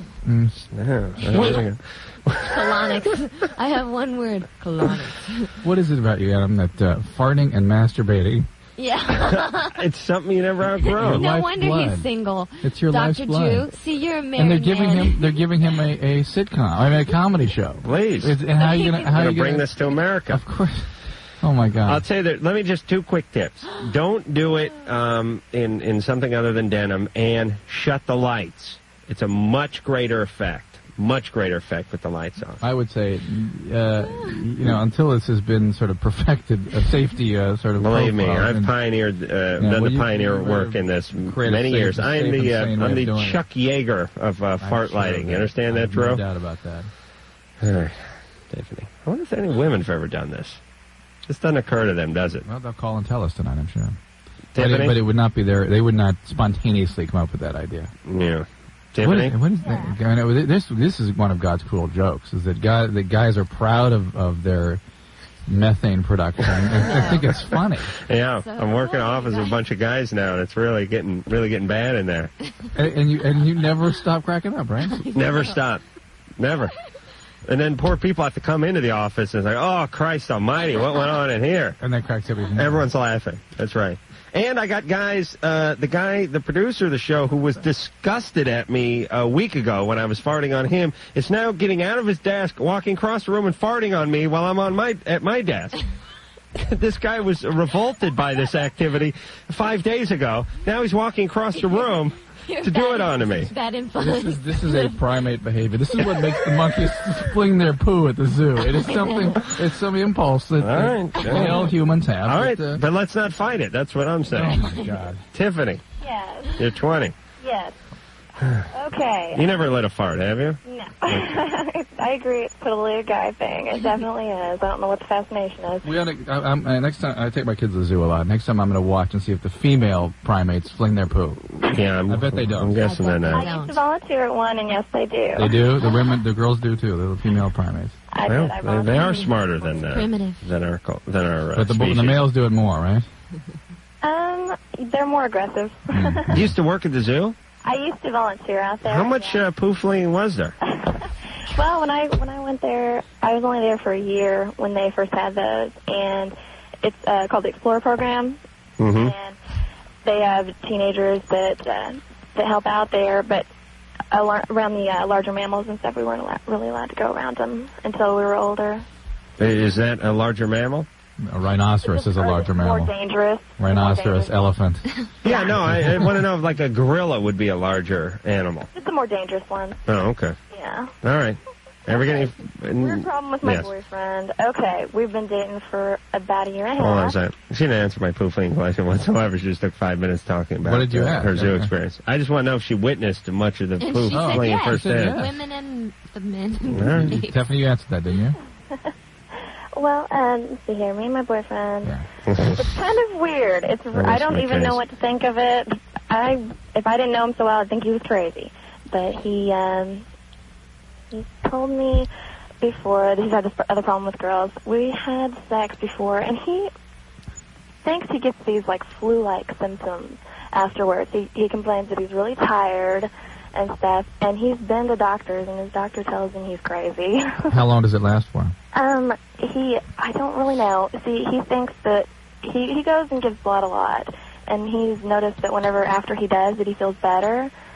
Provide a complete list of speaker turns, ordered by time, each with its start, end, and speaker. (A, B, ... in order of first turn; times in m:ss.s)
0:00.2-0:00.7 A
0:00.7-0:02.9 B
0:01.2-0:01.6 C
0:01.3-0:01.6 A
0:02.4-0:05.6 C
0:05.6-0:08.5 A
0:08.8-0:09.8 C
0:09.2-0:11.2 B
0:10.8-0:15.4 C
0:11.0-0:12.1 A
0:12.6-0:13.7 A
0:14.4-0:19.7 A
0:17.8-0:18.4 B
0:18.6-0:19.1 C
0:19.1-0:20.4 B
0:20.3-0:22.0 A
0:21.8-0:32.6 B
0:32.6-0:38.7 A
0:37.8-0:46.2 B
0:39.6-0:43.4 A
0:44.6-0:46.9 A
0:47.6-0:50.6 B
0:51.3-0:52.5 B
0:52.4-0:54.0 A
0:54.5-0:55.0 B
0:54.6-0:57.9 A
0:58.0-0:59.4 B
0:59.0-1:04.8 A
0:59.6-0:59.9 C
1:05.5-1:07.9 A
1:06.8-1:07.4 C
1:08.0-1:12.3 B
1:08.4-1:09.6 C
1:12.8-1:15.1 A
1:14.9-1:15.6 C
1:15.1-1:15.8 B
1:16.4-1:16.7 B
1:17.4-1:21.8 B
1:21.8-1:22.9 A
1:22.6-1:35.8 B
1:36.6-1:43.5 B
1:41.6-1:41.8 C
1:42.4-1:45.0 C
1:44.0-1:52.8 A
1:48.9-1:49.3 C
1:50.6-1:54.6 B
1:54.3-1:55.2 A
1:55.3-1:55.8 B
1:56.0-1:56.6 D
1:56.6-1:57.2 B
1:57.4-1:57.8 D
1:58.4-1:58.7 B
1:58.7-1:59.6 D
1:59.3-2:01.3 B
2:00.6-2:05.9 D
2:05.8-2:12.8 A
2:11.6-2:13.5 B
2:12.8-2:13.8 C
2:13.2-2:15.7 D
2:15.4-2:18.0 A
2:18.1-2:19.4 D
2:18.2-2:22.2 B
2:18.9-2:20.4 C
2:21.6-2:23.1 A
2:24.0-2:26.4 D
2:25.9-2:26.5 A
2:26.3-2:27.4 B
2:27.6-2:29.4 D
2:28.8-2:30.6 B
2:30.7-2:38.4 D
2:38.8-2:39.2 B
2:38.9-2:39.4 D
2:40.0-2:43.5 D
2:44.1-2:48.8 D
2:49.4-2:50.9 B
2:51.2-2:52.9 A
2:51.8-2:54.4 D
2:53.6-2:56.1 A
2:55.2-2:55.6 D
2:55.2-2:58.7 B
2:58.7-2:59.8 D
2:59.9-3:00.4 B
3:00.5-3:01.0 D
3:01.0-3:03.7 B
3:01.9-3:07.2 D
3:06.8-3:15.2 B
3:10.6-3:11.7 A
3:13.8-3:17.4 C
3:14.1-3:15.4 A
3:16.7-3:17.2 B
3:17.0-3:18.4 A
3:19.8-3:30.0 D
3:22.3-3:22.6 B
3:23.9-3:24.8 B
3:31.1-3:32.1 D
3:32.6-3:36.7 D
3:37.8-3:47.6 D
3:47.5-3:48.6 A
3:48.7-3:57.5 D